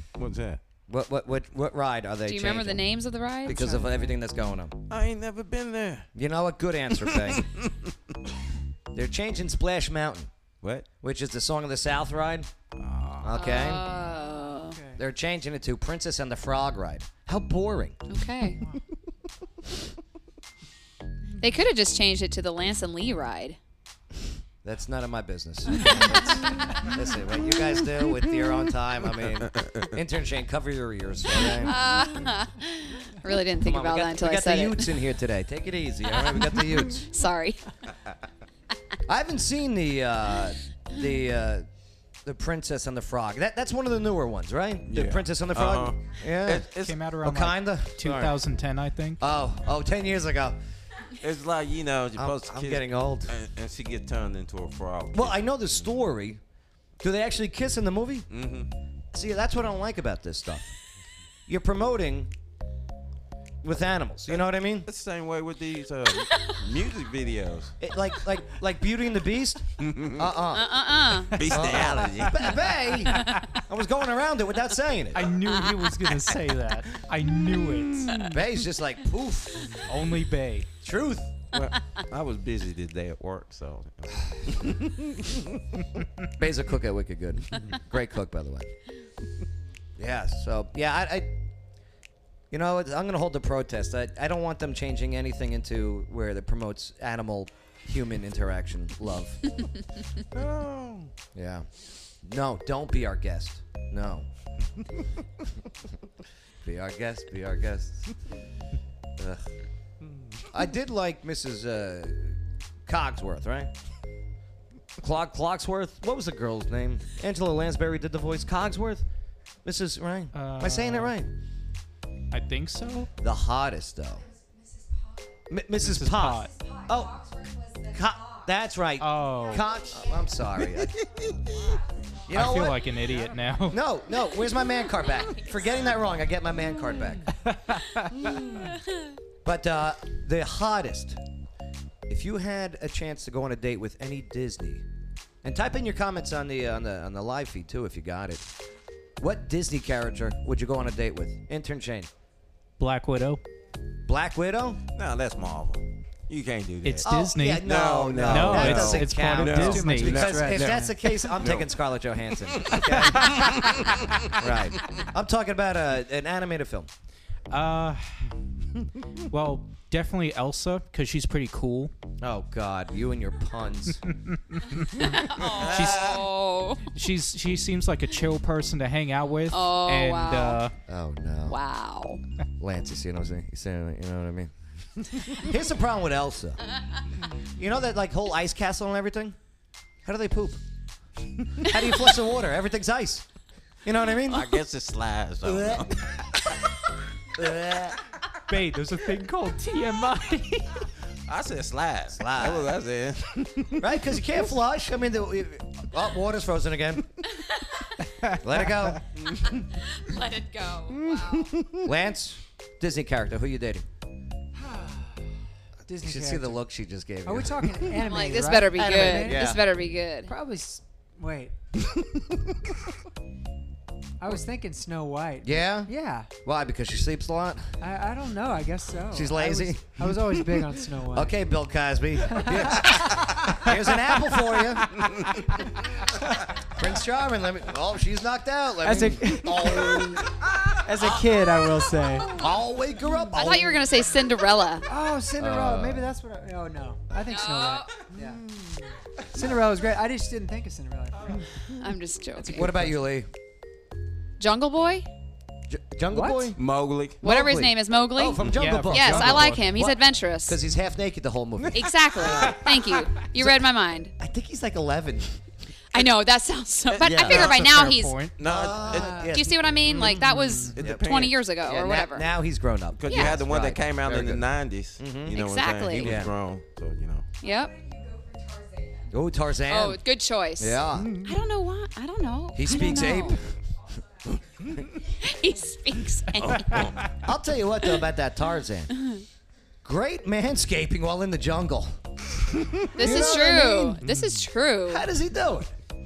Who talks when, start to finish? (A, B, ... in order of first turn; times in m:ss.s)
0:00.2-0:00.6 A
0:00.9-0:02.9 B
0:02.3-0:03.7 C
0:03.4-0:04.8 B
0:03.5-0:04.2 D
0:04.9-0:06.1 A
0:06.2-0:07.5 B
0:07.1-0:07.7 A
0:08.9-0:10.3 B
0:11.0-0:12.5 B
0:12.8-0:15.0 D
0:13.2-0:13.9 B
0:13.3-0:14.8 C
0:15.0-0:18.0 B
0:18.1-0:18.6 C
0:18.5-0:18.8 D
0:21.4-0:23.6 C
0:24.6-0:31.8 B
0:29.5-0:29.9 A
0:31.4-0:34.9 C
0:33.6-0:37.1 B
0:37.1-0:37.6 C
0:39.1-0:41.7 B
0:42.2-0:46.7 B
0:44.9-0:47.0 A
0:46.8-0:49.2 E
0:47.2-0:48.4 B
0:49.2-0:50.6 B
0:51.2-0:55.5 A
0:52.2-0:53.3 B
0:55.1-0:56.4 B
0:57.0-0:58.3 B
0:58.3-0:58.7 A
0:59.1-1:00.8 B
1:01.5-1:02.3 B
1:03.6-1:04.9 B
1:04.9-1:07.7 A
1:07.8-1:10.8 B
1:09.8-1:10.3 A
1:10.5-1:11.4 C
1:11.3-1:12.5 A
1:11.4-1:15.3 B
1:15.1-1:18.4 E
1:18.3-1:19.8 B
1:19.8-1:20.7 E
1:20.8-1:21.3 B
1:21.5-1:25.4 A
1:26.4-1:28.7 B
1:30.0-1:31.3 B
1:32.5-1:39.4 B
1:40.3-1:41.1 A
1:41.4-1:41.7 B
1:42.2-1:44.3 B
1:46.6-1:48.1 B
1:49.2-1:49.5 B
1:50.0-1:50.4 A
1:50.5-1:53.7 B
1:55.0-1:59.1 B
1:59.6-2:01.3 B
2:00.3-2:01.2 E
2:02.3-2:03.1 E
2:03.2-2:04.3 B
2:05.5-2:11.0 B
2:05.8-2:06.6 E
2:09.0-2:09.7 E
2:12.3-2:12.9 B
2:12.3-2:13.8 E
2:13.7-2:17.3 B
2:17.5-2:18.1 E
2:19.4-2:21.2 B
2:22.1-2:24.8 B
2:25.4-2:28.5 B
2:29.2-2:32.1 B
2:32.8-2:33.4 E
2:34.1-2:34.8 B
2:35.0-2:37.1 A
2:36.8-2:37.7 E
2:37.0-2:46.9 B
2:37.6-2:41.7 A
2:38.2-2:40.2 E
2:39.4-2:41.0 D
2:42.5-2:44.4 A
2:47.5-2:48.4 E
2:49.3-2:51.9 E
2:52.2-2:54.0 B
2:55.0-2:56.9 C
2:55.6-2:56.2 B
2:55.6-2:55.9 A
2:55.7-2:56.1 E
2:56.9-3:00.8 E
2:59.5-3:00.6 C
3:00.9-3:01.6 B
3:01.5-3:02.2 C
3:02.6-3:04.5 B
3:05.3-3:06.6 B
3:07.6-3:09.4 B
3:10.0-3:10.6 B
3:11.6-3:13.2 B
3:13.8-3:14.6 B
3:14.3-3:16.1 A
3:15.4-3:15.9 B
3:17.4-3:18.0 B
3:18.5-3:20.8 E
3:21.3-3:24.0 A
3:22.1-3:22.7 B
3:23.8-3:27.1 B
3:28.4-3:29.0 B
3:30.1-3:31.4 C
3:31.1-3:31.8 A
3:31.8-3:33.9 B
3:34.6-3:35.3 D
3:35.9-3:36.6 D
3:35.9-3:38.0 B
3:37.2-3:39.6 D
3:38.0-3:40.3 C
3:38.7-3:39.6 B
3:40.3-3:41.6 D
3:44.2-3:46.3 D
3:45.4-3:45.9 B
3:46.4-3:47.8 B
3:47.8-3:51.4 D
3:49.1-3:50.3 B
3:51.1-3:55.2 B
3:52.3-3:53.4 D
3:56.7-4:00.3 B
3:58.8-4:02.4 D
4:02.4-4:03.8 B
4:03.3-4:04.8 C
4:04.9-4:11.6 D
4:05.4-4:06.1 B
4:07.3-4:07.9 C
4:11.8-4:12.7 C
4:12.4-4:13.0 D
4:12.5-4:13.3 B
4:14.4-4:15.1 C
4:15.7-4:16.6 B
4:16.1-4:16.5 D
4:16.6-4:17.2 A
4:17.2-4:25.4 B
4:17.2-4:20.6 C
4:18.5-4:19.6 E
4:21.8-4:24.1 C
4:25.9-4:28.2 C
4:26.9-4:27.8 A
4:27.1-4:27.4 B
4:27.2-4:28.4 E
4:28.4-4:29.3 A
4:28.4-4:34.4 B
4:28.9-4:29.3 D
4:29.2-4:32.3 C
4:30.2-4:30.7 D
4:30.7-4:31.4 A
4:33.0-4:37.3 A
4:33.1-4:33.4 C
4:35.0-4:35.4 B
4:35.3-4:36.2 C
4:36.0-4:36.3 B
4:37.4-4:37.8 C
4:39.1-4:40.0 B
4:39.7-4:43.4 C
4:40.6-4:41.1 B
4:42.6-4:43.5 B
4:44.5-4:44.9 B
4:45.2-4:46.8 C
4:46.4-4:48.9 B
4:49.8-4:52.0 B
4:53.0-4:54.0 B
4:53.0-4:55.1 C
4:54.0-4:54.4 A
4:54.9-4:55.8 B